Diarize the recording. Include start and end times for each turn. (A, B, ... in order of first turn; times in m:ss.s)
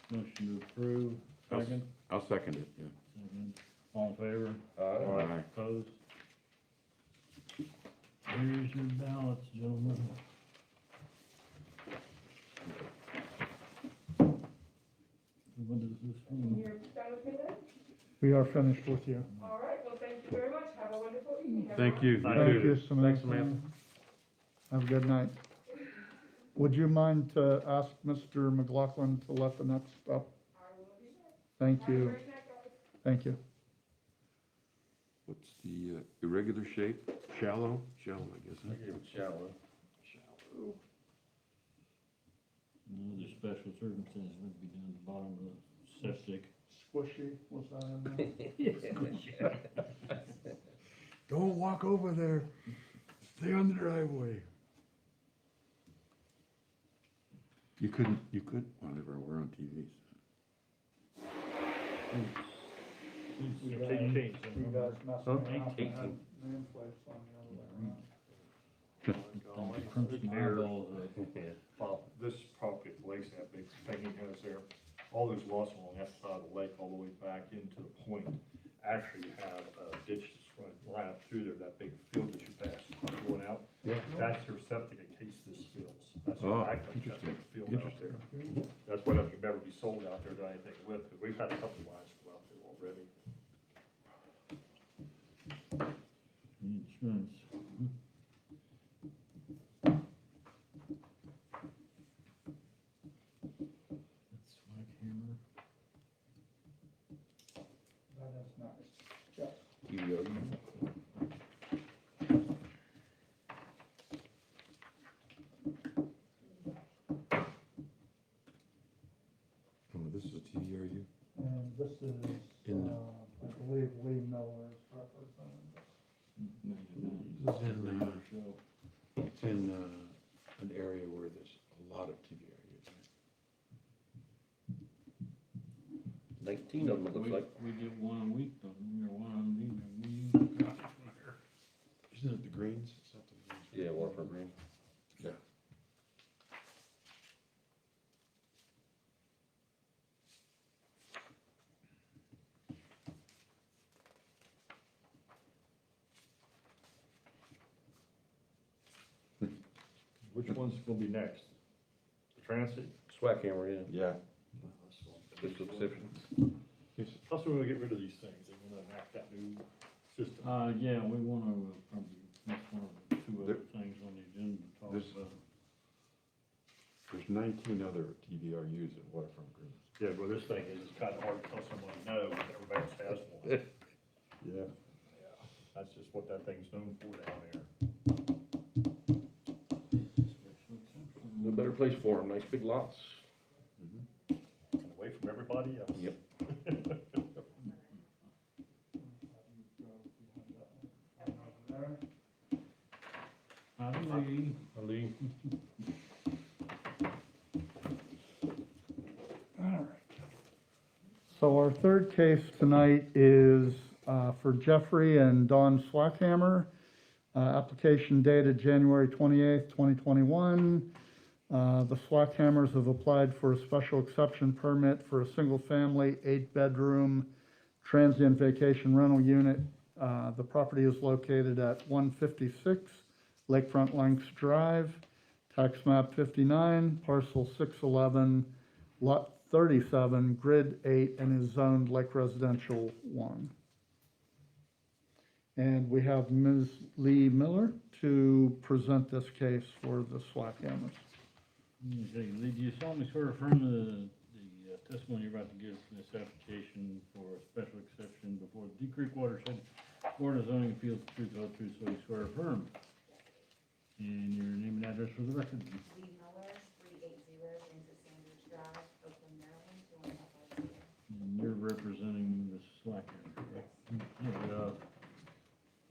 0:00.1-0:01.9 A
0:01.5-0:02.9 B
0:03.1-0:06.0 A
0:04.8-0:05.2 C
0:05.0-0:05.5 B
0:08.2-0:10.2 A
0:15.5-0:16.8 A
0:16.5-0:17.6 D
0:18.2-0:19.3 E
0:19.4-0:22.2 D
0:21.6-0:23.7 E
0:21.8-0:22.4 B
0:22.1-0:22.9 F
0:22.3-0:23.0 C
0:24.7-0:25.4 E
0:26.6-0:30.3 E
0:30.7-0:31.2 D
0:31.6-0:32.2 E
0:31.9-0:32.7 D
0:33.0-0:33.4 E
0:35.3-0:39.0 B
0:38.7-0:39.6 C
0:40.4-0:40.8 E
0:42.9-0:46.5 A
0:46.7-0:48.4 E
0:48.6-0:49.6 A
0:51.3-0:52.5 B
0:53.2-0:54.5 B
0:57.8-1:00.0 B
1:02.1-1:02.8 A
1:03.4-1:04.1 A
1:03.6-1:05.6 F
1:03.6-1:08.1 E
1:05.3-1:06.1 C
1:07.5-1:08.0 A
1:09.0-1:28.2 F
1:09.5-1:11.2 A
1:23.8-1:24.2 B
1:26.4-1:28.2 B
1:28.1-1:28.6 E
1:28.8-1:33.1 F
1:36.6-1:37.9 A
1:44.3-1:45.4 A
1:48.1-1:49.6 E
1:49.9-1:50.2 C
1:59.9-2:01.1 B
2:01.4-2:05.9 E
2:02.6-2:03.0 B
2:06.4-2:08.6 A
2:07.2-2:08.2 B
2:09.2-2:13.0 B
2:16.4-2:17.5 C
2:16.8-2:21.4 A
2:22.1-2:24.4 B
2:23.7-2:24.5 C
2:40.3-2:41.5 F
2:42.4-2:43.0 F
2:43.1-2:43.9 C
2:43.9-2:44.2 B
2:44.6-2:46.2 F
2:45.4-2:46.3 C
2:47.3-2:50.6 F
2:50.4-2:55.4 A
2:54.9-2:55.2 B
2:57.1-2:59.8 B
3:00.0-3:03.7 F
3:04.4-3:04.7 B
3:05.7-3:07.7 F
3:09.9-3:11.8 A
3:11.4-3:13.2 C
3:14.8-3:17.2 F
3:19.0-3:22.0 E
3:23.8-3:24.7 A
3:24.7-3:25.2 C
3:29.6-3:30.1 E
3:31.3-3:36.7 E
3:37.3-3:40.9 E
3:41.5-3:47.3 E
3:47.8-3:58.5 E
3:59.0-4:03.5 E
4:05.6-4:11.1 E
4:11.8-4:22.7 A
4:23.0-4:23.5 G
4:24.0-4:25.8 A
4:25.8-4:30.9 G
4:31.1-4:34.8 A
4:33.5-4:33.8 G